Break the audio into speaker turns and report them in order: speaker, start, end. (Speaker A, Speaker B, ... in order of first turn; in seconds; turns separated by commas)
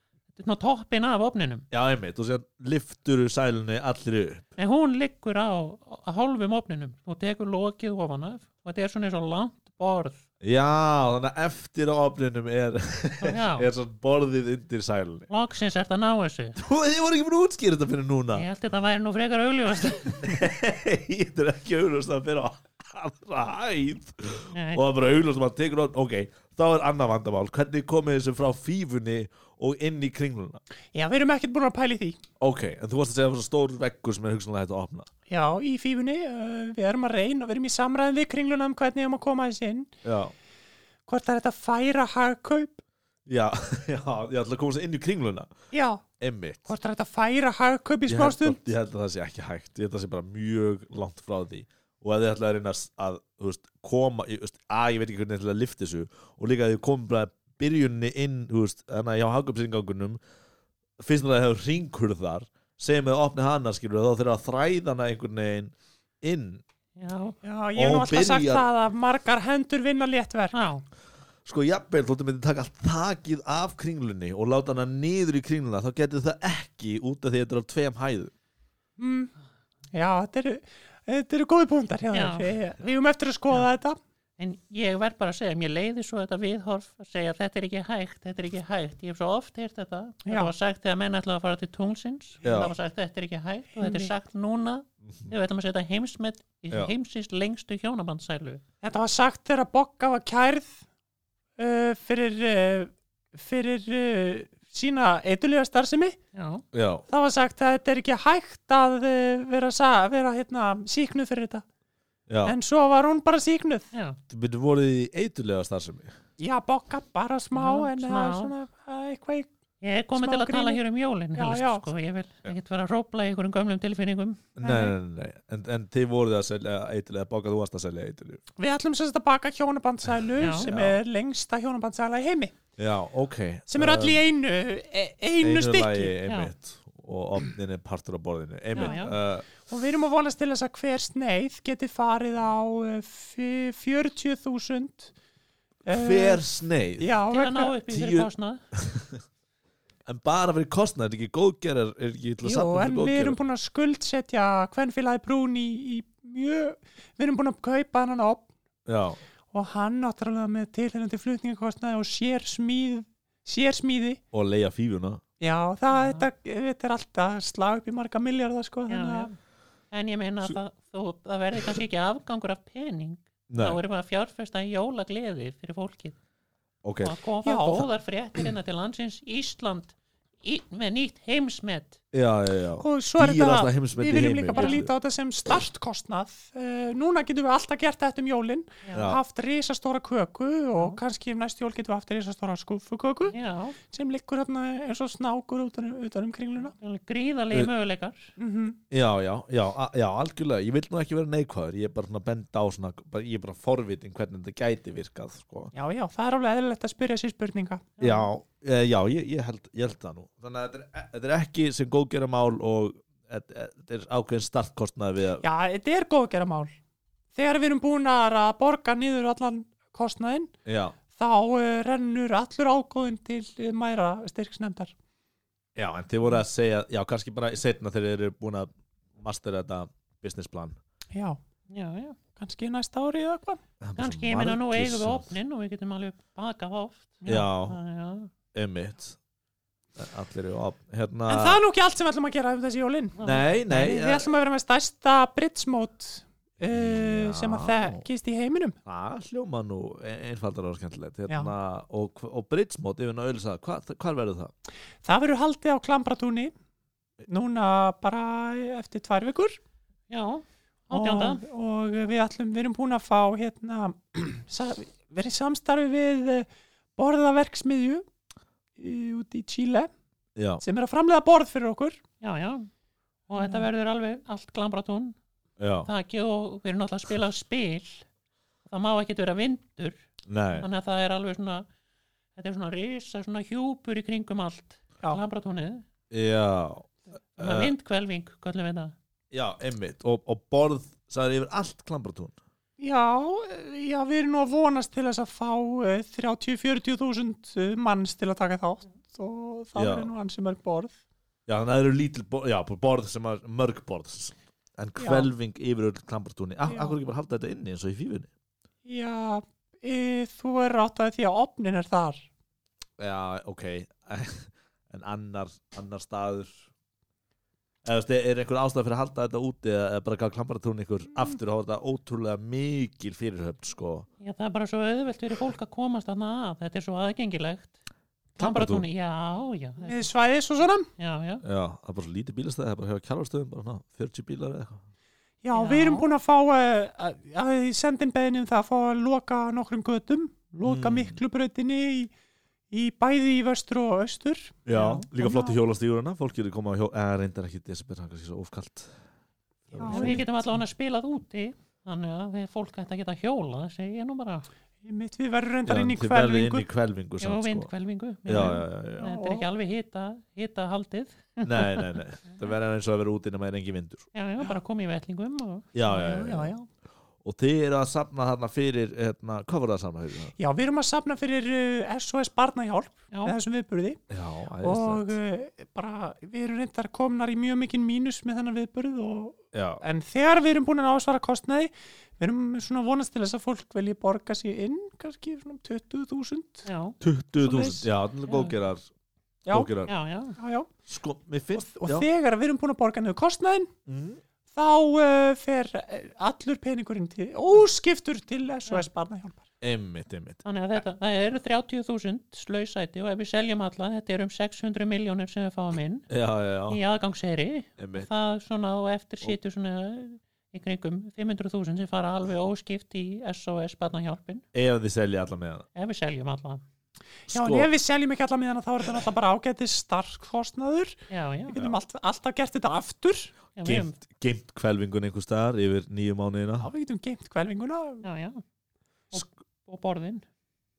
Speaker A: 0.3-1.6, Speaker B: 1.7-4.5, Speaker A: 4.6-10.2, Speaker B: 10.4-15.3, Speaker A: 13.2-13.7, Speaker A: 15.3-16.6, Speaker B: 16.6-18.5, Speaker A: 18.3-20.4, Speaker B: 20.0-30.6, Speaker A: 24.5-24.8, Speaker C: 30.9-32.2, Speaker B: 32.4-35.1, Speaker C: 35.3-39.9, Speaker B: 40.0-40.3, Speaker C: 41.1-42.8, Speaker B: 43.3-45.5, Speaker C: 45.7-46.0, Speaker B: 46.2-46.7, Speaker C: 46.6-48.6, Speaker B: 48.1-60.2, Speaker B: 61.0-66.6, Speaker A: 67.0-67.4, Speaker C: 67.4-70.6, Speaker B: 67.7-68.7, Speaker A: 70.5-70.8, Speaker B: 71.4-78.3, Speaker C: 79.0-79.3, Speaker C: 79.9-84.0, Speaker A: 82.1-82.5, Speaker A: 84.4-98.6, Speaker C: 90.2-90.5, Speaker B: 92.4-92.7, Speaker C: 93.8-94.1, Speaker C: 98.8-100.8, Speaker C: 101.6-106.2, Speaker A: 106.3-106.6, Speaker B: 106.7-107.0, Speaker C: 107.1-111.6, Speaker B: 112.3-112.5, Speaker C: 112.4-113.9, Speaker A: 113.9-114.2, Speaker B: 114.3-116.1, Speaker C: 116.4-119.5, Speaker A: 117.5-118.5, Speaker A: 119.8-124.5, Speaker C: 120.1-120.8, Speaker C: 121.3-121.9, Speaker B: 124.5-128.4, Speaker C: 124.6-125.0, Speaker C: 128.6-132.5, Speaker A: 130.4-130.7, Speaker B: 130.4-131.0, Speaker B: 132.8-134.2, Speaker C: 133.7-136.1, Speaker B: 135.4-139.5, Speaker A: 136.2-136.5, Speaker A: 138.7-139.1, Speaker C: 138.8-145.1, Speaker C: 145.8-146.4, Speaker B: 145.9-147.1, Speaker C: 147.0-147.8, Speaker A: 147.3-148.6, Speaker B: 147.9-149.2, Speaker B: 150.1-153.4, Speaker C: 152.4-158.5, Speaker B: 158.8-159.2, Speaker C: 159.5-164.2, Speaker B: 164.3-165.2, Speaker C: 165.4-169.3, Speaker A: 165.9-166.3, Speaker A: 168.9-169.3, Speaker A: 169.9-176.2, Speaker B: 173.5-173.8, Speaker B: 176.8-177.1, Speaker A: 177.0-182.0, Speaker C: 177.4-177.9, Speaker B: 182.1-184.9, Speaker C: 182.8-196.7, Speaker A: 188.8-189.1, Speaker B: 188.9-189.2, Speaker A: 193.3-193.8, Speaker A: 196.6-198.3, Speaker C: 198.4-198.8, Speaker B: 198.9-205.7, Speaker C: 205.7-207.9, Speaker A: 208.0-208.3, Speaker B: 208.0-215.4, Speaker C: 215.4-216.7, Speaker C: 217.3-220.5, Speaker B: 220.7-221.0, Speaker C: 221.1-224.9, Speaker B: 225.8-228.7, Speaker B: 229.2-230.8, Speaker C: 231.1-231.4, Speaker A: 231.7-232.2, Speaker C: 232.3-233.6, Speaker B: 233.8-235.3, Speaker A: 233.9-238.3, Speaker C: 237.2-237.5, Speaker B: 237.2-237.8, Speaker B: 238.5-239.2, Speaker B: 239.9-241.6, Speaker C: 241.3-248.8, Speaker A: 243.2-243.5, Speaker B: 243.2-244.3, Speaker B: 246.7-248.1, Speaker B: 248.8-254.5, Speaker C: 255.0-256.5, Speaker C: 257.3-259.6, Speaker A: 260.1-261.4, Speaker C: 260.9-268.0, Speaker C: 268.8-269.9, Speaker B: 270.4-270.6, Speaker C: 270.6-272.0, Speaker A: 272.2-272.7, Speaker A: 273.3-275.2, Speaker C: 273.4-273.7, Speaker B: 275.6-275.9, Speaker A: 275.8-278.1, Speaker A: 278.6-280.0, Speaker B: 280.3-280.7, Speaker A: 280.6-281.6, Speaker A: 282.3-285.9, Speaker B: 286.1-287.7, Speaker A: 287.4-288.9, Speaker B: 289.3-292.4, Speaker C: 292.8-300.9, Speaker B: 299.8-300.1, Speaker B: 301.5-308.3, Speaker C: 305.0-305.3, Speaker C: 306.6-306.9, Speaker C: 308.9-312.2, Speaker B: 313.0-316.7, Speaker B: 317.8-324.1, Speaker A: 324.2-327.7, Speaker A: 328.4-330.0, Speaker B: 328.4-328.9, Speaker C: 329.8-330.9, Speaker A: 331.0-331.4, Speaker B: 331.4-334.8, Speaker C: 335.4-342.1, Speaker A: 335.5-336.1, Speaker B: 340.6-341.2, Speaker C: 342.7-345.6, Speaker B: 344.6-348.9, Speaker B: 349.7-350.3, Speaker C: 349.8-350.2, Speaker A: 349.9-354.5, Speaker C: 354.8-356.6, Speaker B: 355.6-357.7, Speaker A: 357.2-362.0, Speaker B: 358.2-359.1, Speaker C: 359.0-359.4, Speaker B: 361.4-364.1, Speaker A: 364.1-365.7, Speaker B: 365.7-366.5, Speaker C: 365.9-366.6, Speaker B: 367.2-370.3, Speaker C: 370.4-374.0, Speaker A: 373.1-373.3, Speaker B: 374.1-375.1, Speaker C: 374.6-386.7, Speaker B: 379.5-379.8, Speaker A: 386.6-387.0, Speaker B: 387.0-388.9, Speaker C: 387.4-387.9, Speaker A: 388.2-388.6, Speaker C: 389.4-389.7, Speaker B: 389.5-389.9, Speaker A: 389.8-390.4, Speaker C: 390.4-390.7, Speaker B: 390.9-392.1, Speaker C: 391.5-393.7, Speaker B: 393.9-394.2, Speaker C: 394.5-399.4, Speaker B: 399.6-400.4, Speaker A: 400.4-406.1, Speaker B: 406.1-406.8, Speaker A: 406.7-414.4, Speaker B: 407.8-408.1, Speaker B: 414.5-415.7, Speaker A: 415.7-416.6, Speaker C: 417.3-420.9, Speaker B: 417.3-417.7, Speaker A: 421.1-421.6, Speaker C: 421.5-423.3, Speaker A: 423.5-423.9, Speaker B: 423.6-426.7, Speaker C: 426.6-428.0, Speaker A: 428.0-428.4, Speaker A: 429.1-430.2